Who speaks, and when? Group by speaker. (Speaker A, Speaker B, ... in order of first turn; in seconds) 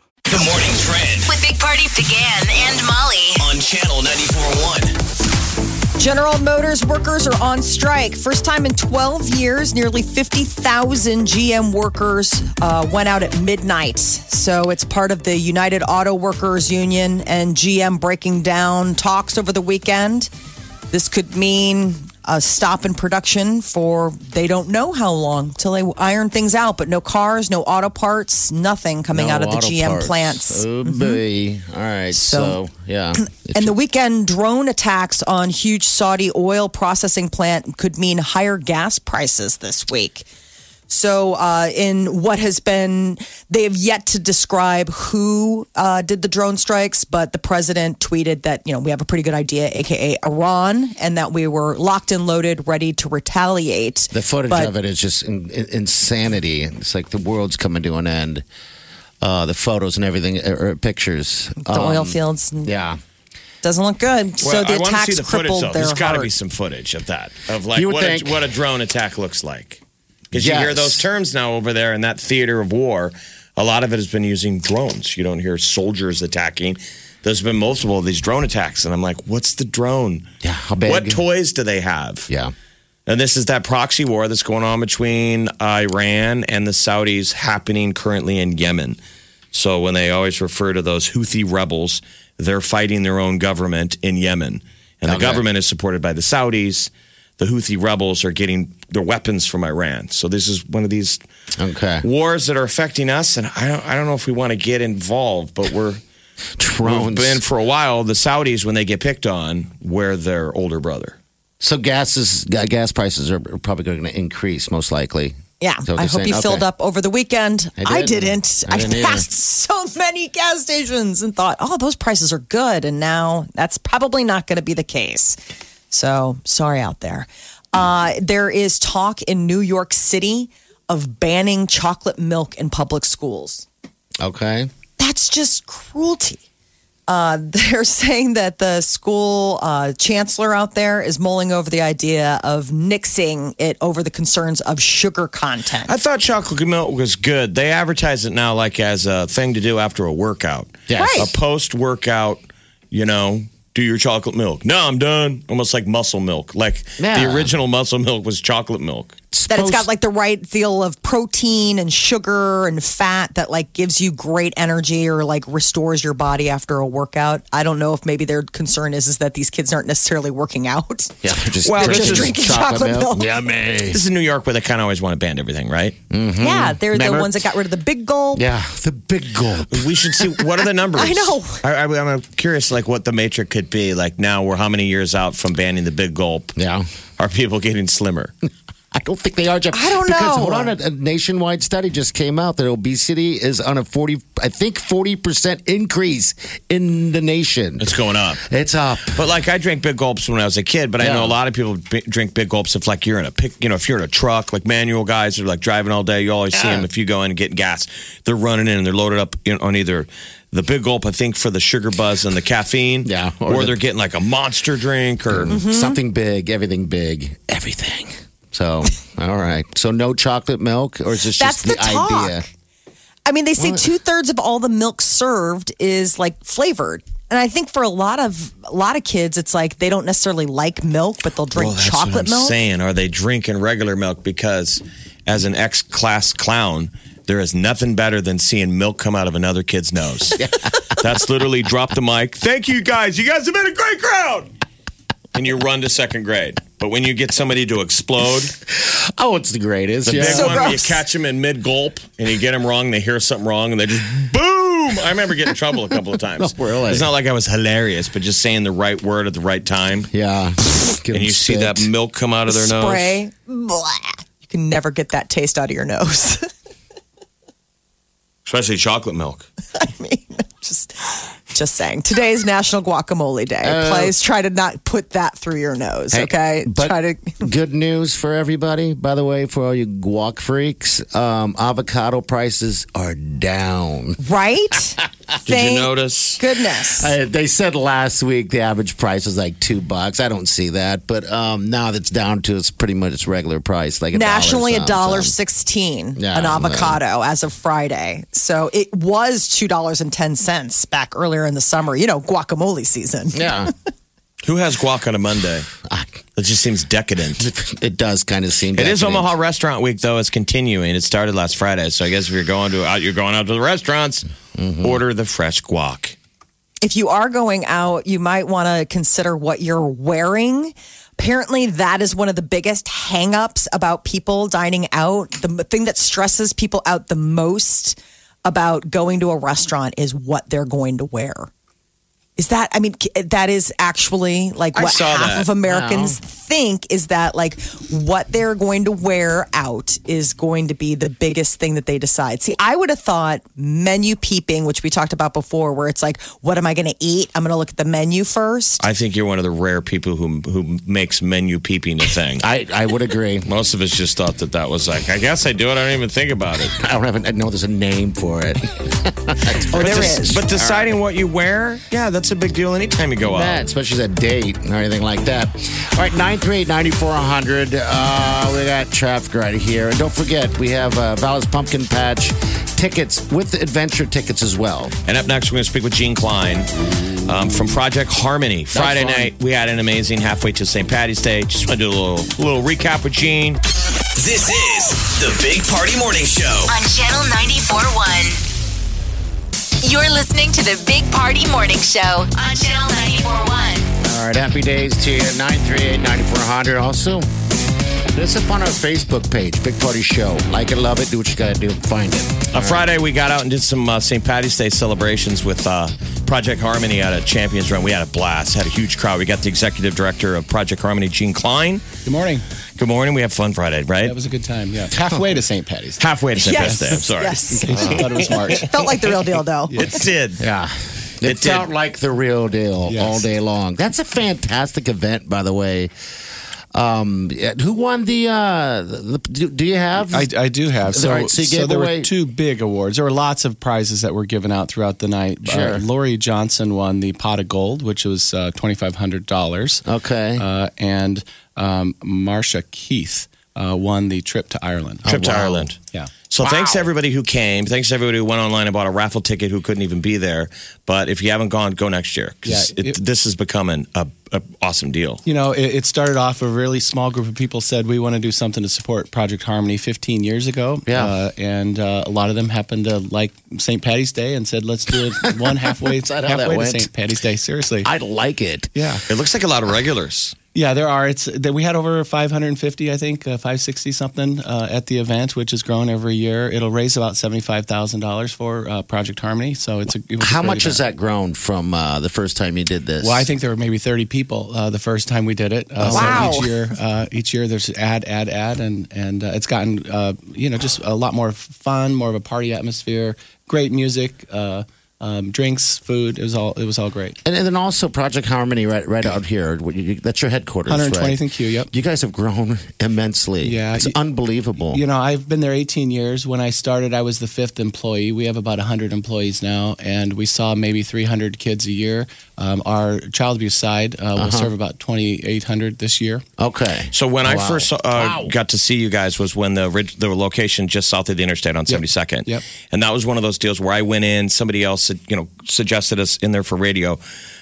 Speaker A: 0.3-1.1, 3.6-4.8, 384.2-386.5
Speaker B: 1.2-3.6, 386.6-388.4, 389.8-393.9
Speaker C: 6.0-20.3, 20.9-31.2, 32.1-32.6, 33.3-40.3, 40.9-54.7, 61.6-62.7, 63.6-66.3, 115.6-125.4, 125.9-133.7, 135.0-136.4, 137.1-145.9, 150.9-151.3, 159.5-171.1, 171.7-173.3, 176.4-178.4, 180.9-181.6, 189.7-190.7, 215.5-216.0, 221.3-222.5, 223.2-232.6, 250.2-251.0, 262.5-266.4, 269.7-277.4, 284.2-287.1, 294.1-303.7, 316.8-331.5, 332.4-348.8, 359.6-360.4, 416.4-419.8, 485.9-486.5
Speaker D: 29.1-33.7, 54.1-58.4, 59.2-63.0, 67.7-68.4, 70.3-71.1, 80.4-81.2, 95.0-95.4, 101.6-102.0, 106.6-107.4, 111.6-115.3, 115.8-116.6, 117.8-119.3, 134.2-134.7, 150.9-151.3, 157.0-157.5, 159.3-159.9, 171.2-174.0, 176.1-177.4, 178.3-180.4, 186.6-186.8, 188.9-199.2, 201.0-201.4, 206.5-206.9, 213.0-213.8, 215.3-222.4, 223.6-223.9, 240.4-240.8, 248.7-250.6, 256.4-257.1, 260.1-261.9, 273.6-274.1, 276.1-284.2, 287.0-295.3, 296.1-297.0, 303.3-303.7, 305.8-306.2, 307.4-309.3, 314.5-315.0, 335.6-336.2, 352.4-353.5, 356.8-361.0, 363.2-374.9, 376.9-377.5, 378.7-379.3, 394.0-397.3, 398.1-402.9, 417.7-418.1, 420.4-425.9, 426.7-430.3, 430.8-432.1, 435.4-435.8, 439.9-440.4, 445.0-445.7, 446.4-446.9, 460.9-461.1, 465.3-466.9, 467.8-468.7, 480.2-483.3, 485.9-486.2, 497.2-504.8, 514.1-514.5, 516.4-518.3
Speaker E: 64.4-69.8, 70.3-80.2, 80.8-82.3, 83.1-89.0, 89.5-101.2, 102.0-106.0, 106.8-111.2, 145.8-159.1, 171.6-172.5, 173.9-176.0, 179.7-186.5, 187.2-188.3, 197.8-198.4, 199.1-215.5, 231.5-240.4, 240.9-244.5, 245.3-248.5, 250.1-260.1, 261.1-263.1, 268.4-269.4, 285.4-286.4, 304.4-305.7, 306.4-307.5, 308.7-314.3, 314.8-316.2, 334.7-335.5, 348.8-352.4, 353.4-356.7, 359.7-363.6, 375.0-376.7, 377.2-383.6, 402.5-411.9, 412.8-414.1, 416.0-417.5, 419.7-420.4, 421.2-421.7, 445.1-455.2, 469.1-470.4, 516.9-527.0
Speaker F: 412.0-412.4, 414.0-418.7, 419.7-420.0, 422.9-423.2, 430.0-439.8, 440.4-445.0, 452.4-453.0, 455.2-467.9, 468.7-469.0, 470.5-480.8, 483.0-497.2, 500.7-501.7, 503.4-503.9, 504.6-516.2, 521.7-522.4